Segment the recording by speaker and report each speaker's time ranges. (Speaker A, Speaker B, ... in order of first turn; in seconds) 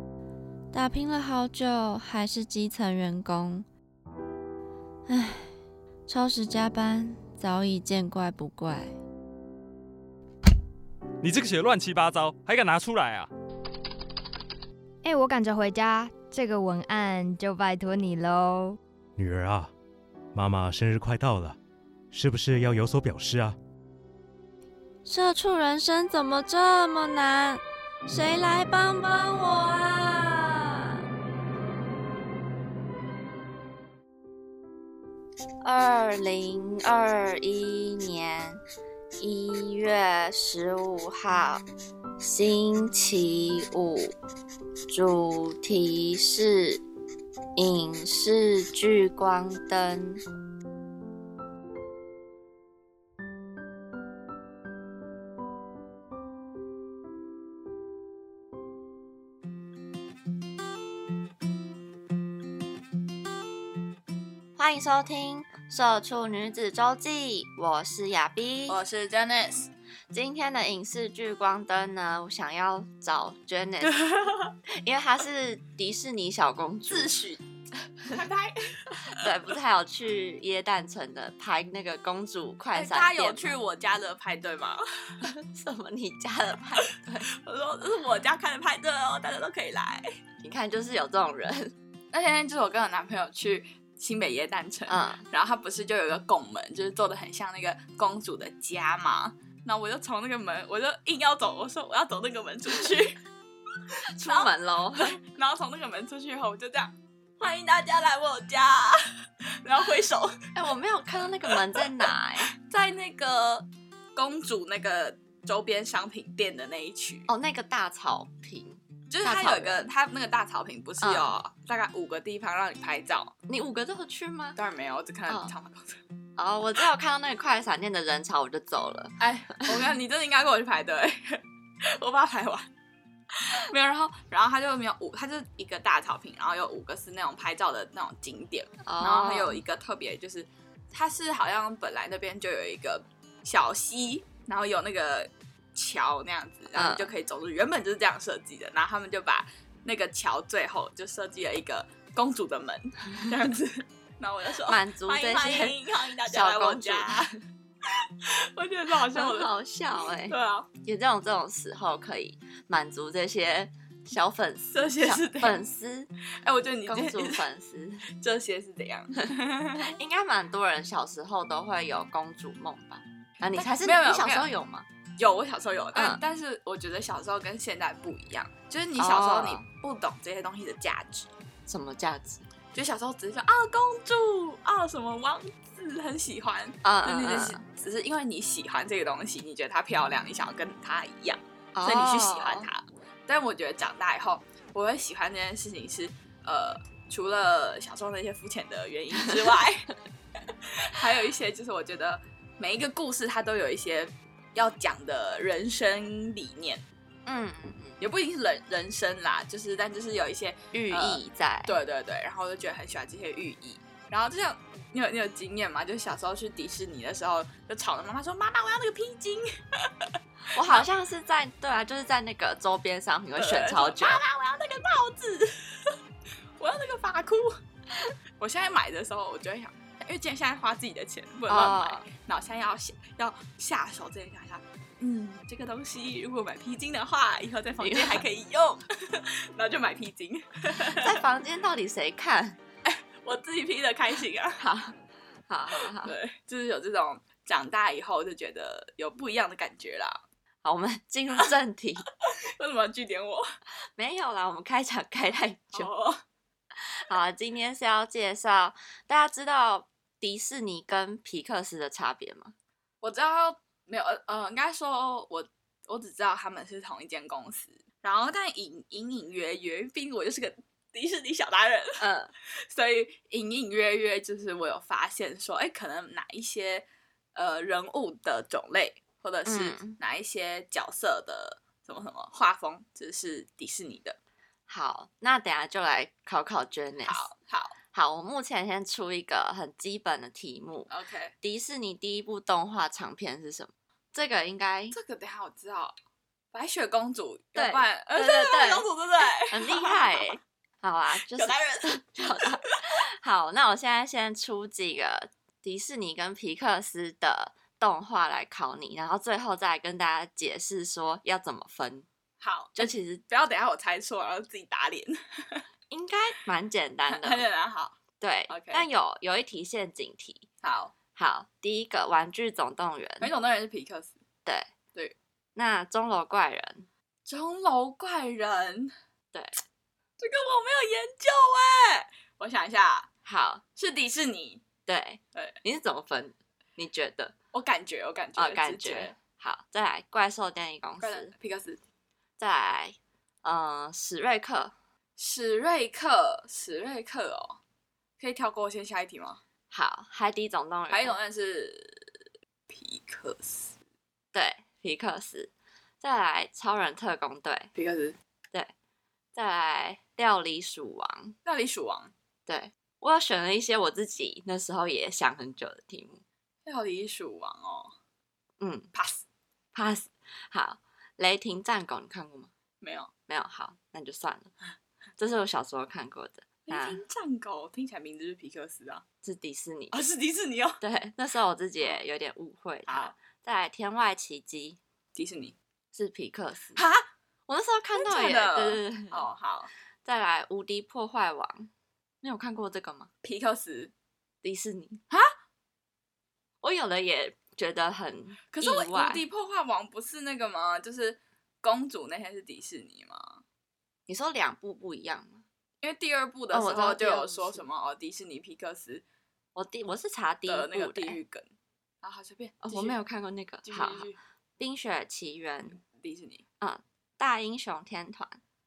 Speaker A: 0.7-3.6, 5.1-5.5, 6.1-8.9, 25.0-31.0, 35.6-38.6, 39.2-41.6, 42.2-44.1, 44.9-46.8, 47.5-50.2, 64.5-68.8, 70.1-74.1, 74.7-77.1, 79.1-83.5, 85.2-87.3, 90.4-91.7, 94.9-95.3, 104.1-105.2, 110.5-112.5, 117.3-119.8, 121.0-121.4, 123.5-124.6, 125.3-125.5, 126.4-129.8, 138.8-139.6, 146.7-147.1, 154.7-155.8, 156.3-157.2, 159.1-166.1, 166.8-168.1, 169.7-174.9, 175.9-176.2, 179.0-179.7, 181.7-182.4, 186.8-187.6, 191.7-192.7, 207.2-208.1, 210.7-211.8, 220.5-224.2, 231.5-232.1, 237.8-238.2, 240.8-242.6, 244.6-244.9, 245.5-246.1, 250.6-252.1, 254.0-255.9, 256.9-262.5, 272.0-272.3, 279.4-280.0, 284.7-287.3, 287.9-295.0, 297.5-298.9, 299.5-312.1, 312.8-313.2, 315.9-317.4, 318.2-320.5, 321.1-323.3, 324.4-324.7, 325.5-326.9, 333.2-333.6, 334.9-337.3, 338.4-341.3, 342.4-344.7, 349.7-351.1, 354.3-357.7, 359.3-361.4, 362.5-366.2, 368.6-368.9, 369.7-372.5, 373.3-374.5, 375.2-377.0, 379.2-380.0, 380.8-384.8, 385.9-386.8, 387.5-389.2, 390.0-391.7, 392.2-393.1, 394.4-395.0, 396.6-399.2, 404.1-405.4, 406.5-407.6, 409.5-411.2, 412.6-414.1, 414.6-415.8, 416.6-418.4
Speaker B: 11.2-13.3
Speaker C: 15.0-18.8
Speaker D: 19.2-19.7, 20.3-21.6, 22.1-23.6
Speaker E: 68.7-69.7, 73.8-74.5, 76.9-77.4, 78.1-79.3, 82.7-85.1, 87.3-90.1, 92.1-103.2, 104.2-110.4, 111.5-117.3, 119.1-123.3, 124.5-126.0, 129.2-132.7, 133.4-159.5, 160.3-160.7, 164.7-165.6, 166.4-167.4, 168.1-169.9, 173.5-174.5, 175.2-181.3, 182.7-199.9, 200.5-206.8, 208.0-220.9, 223.4-226.0, 226.6-227.6, 228.4-241.2, 242.8-244.6, 245.7-250.2, 252.2-253.5, 255.7-256.2, 263.0-272.0, 272.5-284.2, 287.1-287.8, 290.9-291.3, 294.9-295.9, 296.5-300.2, 301.2-302.6, 312.4-315.6, 317.1-318.0, 318.5-318.9, 320.6-320.9, 323.2-324.1, 327.2-328.9, 330.2-333.1, 333.8-334.6, 337.5-339.1, 341.0-341.8, 345.2-347.6, 348.2-349.4, 350.9-352.1, 352.7-353.7, 357.8-358.1, 361.4-362.1, 366.6-367.9, 368.9-369.2, 372.8-373.1, 376.7-379.0, 379.9-380.8, 382.9-383.1, 385.1-385.5, 386.8-387.1, 387.9-389.7, 393.2-393.9, 398.5-403.4, 405.8-409.0, 410.5-411.5, 412.0-413.0, 413.6-414.2, 415.8-416.4